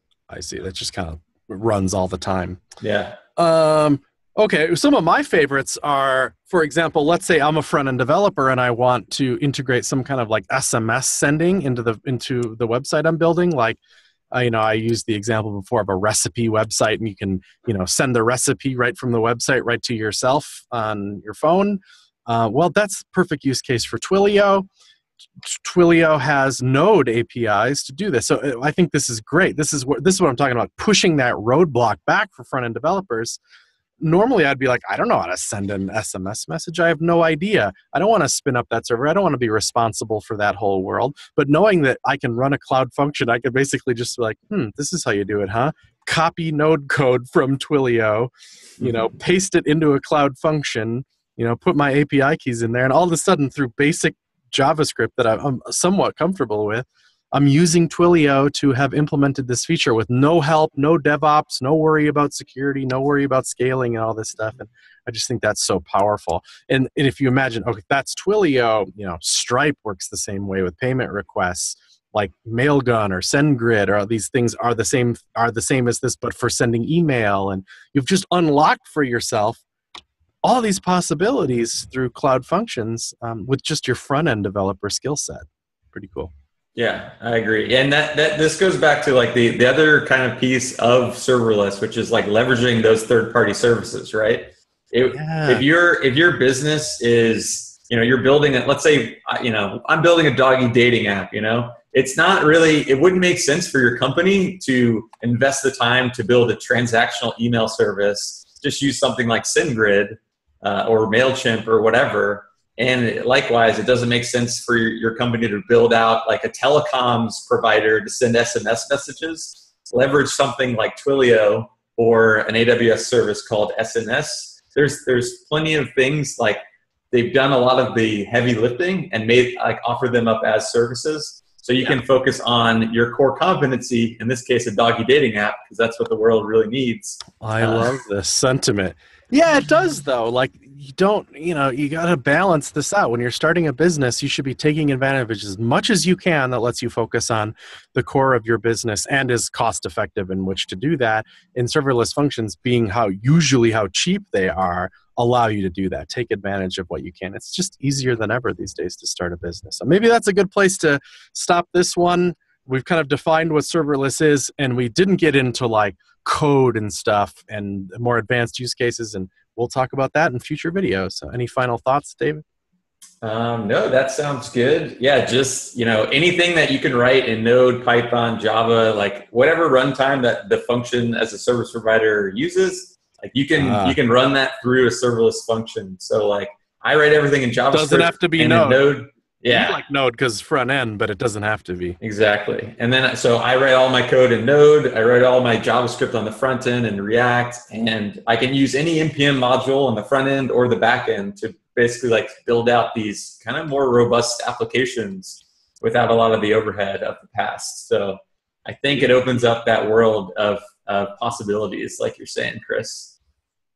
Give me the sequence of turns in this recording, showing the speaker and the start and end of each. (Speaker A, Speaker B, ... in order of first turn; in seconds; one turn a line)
Speaker A: 0.3-2.6
Speaker B: 2.8-3.2
Speaker A: 3.4-13.8
Speaker A: 14.3-24.7
Speaker A: 25.4-33.4
Speaker A: 34.0-79.6
Speaker A: 80.4-86.3
Speaker B: 86.8-126.6
Speaker A: 95.1-95.6
Speaker B: 127.1-138.0
Speaker A: 137.4-172.4
Speaker B: 173.2-189.8
Speaker A: 183.6-184.0
Speaker A: 187.7-188.8
Speaker A: 189.5-192.0
Speaker B: 192.0-213.1